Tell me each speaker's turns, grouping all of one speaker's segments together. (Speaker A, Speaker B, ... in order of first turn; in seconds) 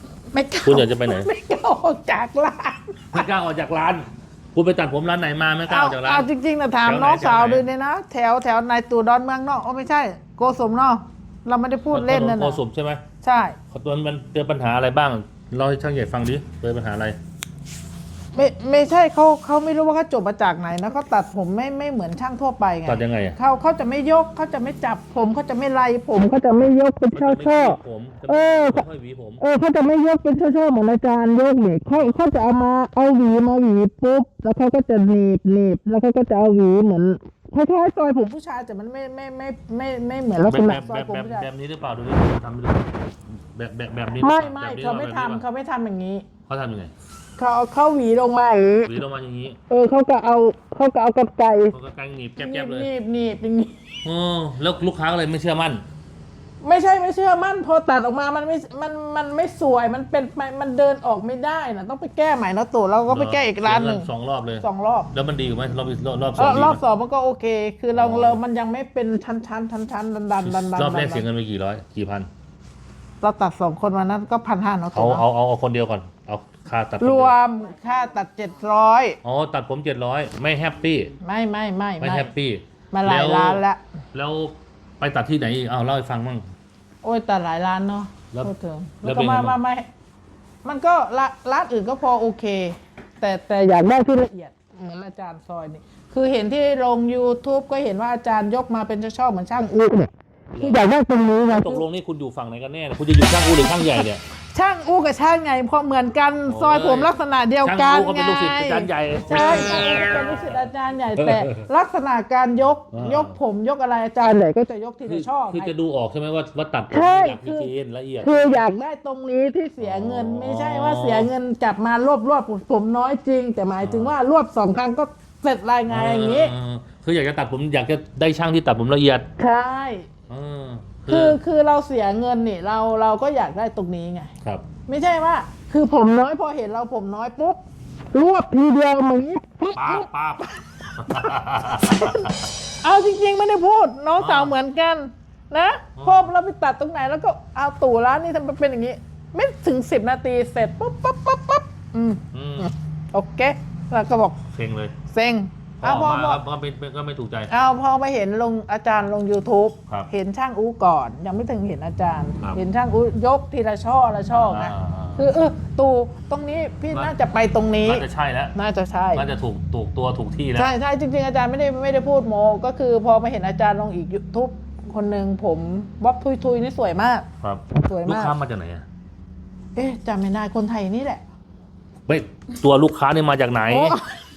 Speaker A: 0.3-3.2, 5.7-12.6, 13.2-13.6, 18.3-28.8, 29.4-41.5, 44.2-46.2, 47.4-48.9, 49.7-51.7, 52.4-53.7, 56.6-64.1, 64.6-65.1, 66.4-71.2, 73.2-75.2, 77.0-79.2, 81.2-82.3, 82.9-83.8, 87.0-89.8, 90.6-101.8, 104.5-115.7, 116.9-117.7, 118.2-126.5, 129.4-130.1, 131.1-134.3, 134.9-137.6, 138.1-140.0, 141.8-142.3, 142.8-154.4, 155.1-156.4, 157.5-168.0, 168.5-169.2, 170.6-178.3, 179.8-181.2, 183.7-184.1
Speaker B: 0.6-1.3, 3.1-6.3, 6.8-7.7, 11.9-13.0, 13.7-17.2, 22.9-23.4, 27.1-29.4, 40.5-45.4, 46.5-46.9, 48.8-49.6, 51.7-52.9, 54.0-55.8, 63.1-66.8, 67.9-68.4, 70.4-72.3, 74.9-77.4, 79.2-81.2, 82.0-83.6, 84.1-86.5, 89.0-89.6, 100.5-100.8, 101.5-104.2, 106.5-111.7, 112.9-113.4, 115.0-118.7, 119.8-121.3, 123.8-124.2, 125.9-129.3, 130.3-131.4, 139.7-142.5, 144.2-144.5, 145.9-146.3, 152.3-152.7, 154.5-154.9, 155.8-157.5, 164.3-165.3, 167.8-168.5, 169.1-170.7, 177.4-178.8, 182.1-184.0